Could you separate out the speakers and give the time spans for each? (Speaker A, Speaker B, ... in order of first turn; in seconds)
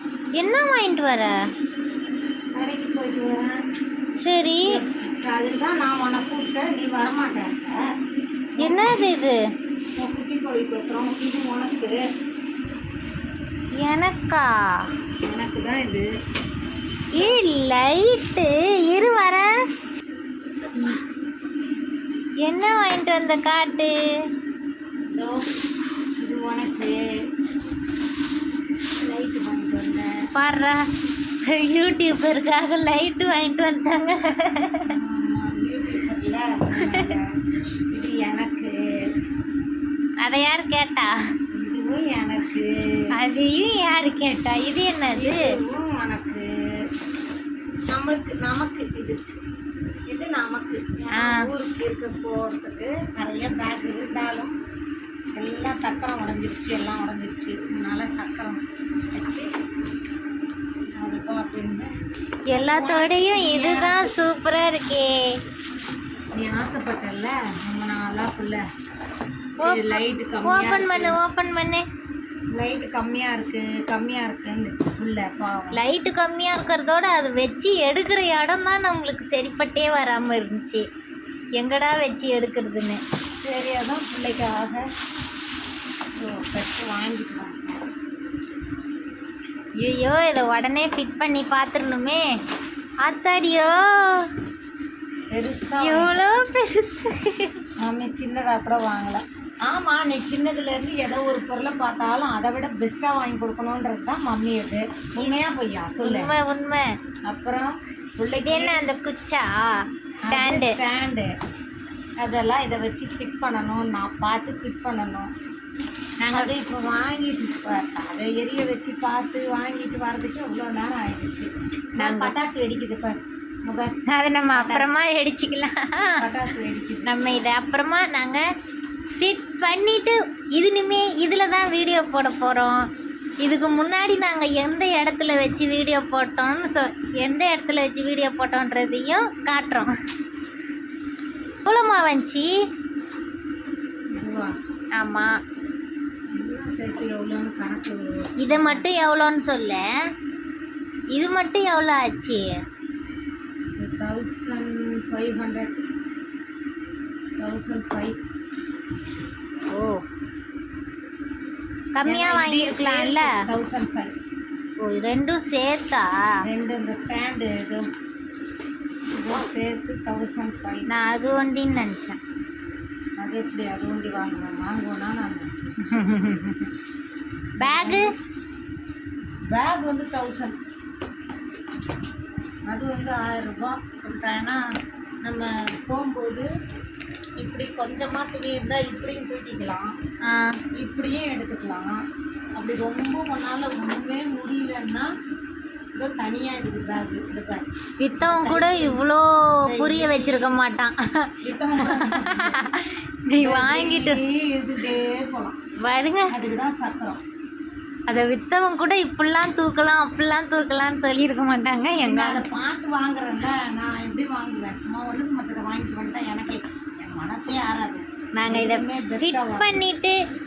Speaker A: 0.4-1.3, 4.2-4.8, 8.6-9.4, 13.8-14.5, 17.2-19.5, 22.4-23.9, 30.4-30.8, 31.5-34.9, 36.8-37.1, 40.2-41.1, 43.1-45.5, 51.1-51.5, 62.5-65.3, 69.6-71.8, 75.7-80.8, 81.6-83.0, 89.8-92.3, 93.0-94.3, 95.8-97.5, 106.0-106.9, 108.3-109.7, 110.2-110.8, 116.2-116.5, 122.0-122.3, 124.1-126.2, 127.0-128.4, 129.2-132.8, 133.4-139.9, 141.7-142.5, 145.0-145.3, 148.4-149.9, 151.2-152.5, 159.7-160.0, 162.0-163.4, 164.8-166.4, 170.9-172.2, 175.8-176.7, 177.6-178.1, 190.2-190.6, 198.0-204.2, 205.8-206.3, 208.1-212.4, 218.4-220.2
Speaker B: 2.5-3.6, 4.7-7.9, 8.6-8.8, 10.0-12.0, 15.2-16.1, 20.6-21.0, 25.1-25.5, 26.2-27.1, 29.0-30.1, 34.9-37.3, 37.9-38.8, 41.5-42.7, 45.1-46.5, 47.9-49.2, 50.1-54.5, 55.4-58.6, 59.1-59.5, 61.0-61.9, 62.6-64.1, 66.3-68.6, 69.6-71.2, 72.5-75.8, 83.4-84.8, 86.2-87.8, 95.3-96.2, 97.8-106.3, 107.2-108.9, 110.2-111.3, 112.2-115.3, 116.3-124.0, 124.5-125.0, 126.2-127.1, 144.1-144.5, 146.3-148.9, 153.8-155.7, 157.4-158.2, 162.0-164.1, 166.4-167.9, 169.1-171.5, 173.2-175.6, 177.6-178.1, 179.5-180.6, 182.7-184.6, 185.2-186.5, 187.4-189.9, 190.8-192.0, 192.6-195.1, 196.0-197.7, 198.2-199.0, 199.7-200.6, 201.4-202.7, 203.4-205.6, 206.3-207.2, 212.0-219.8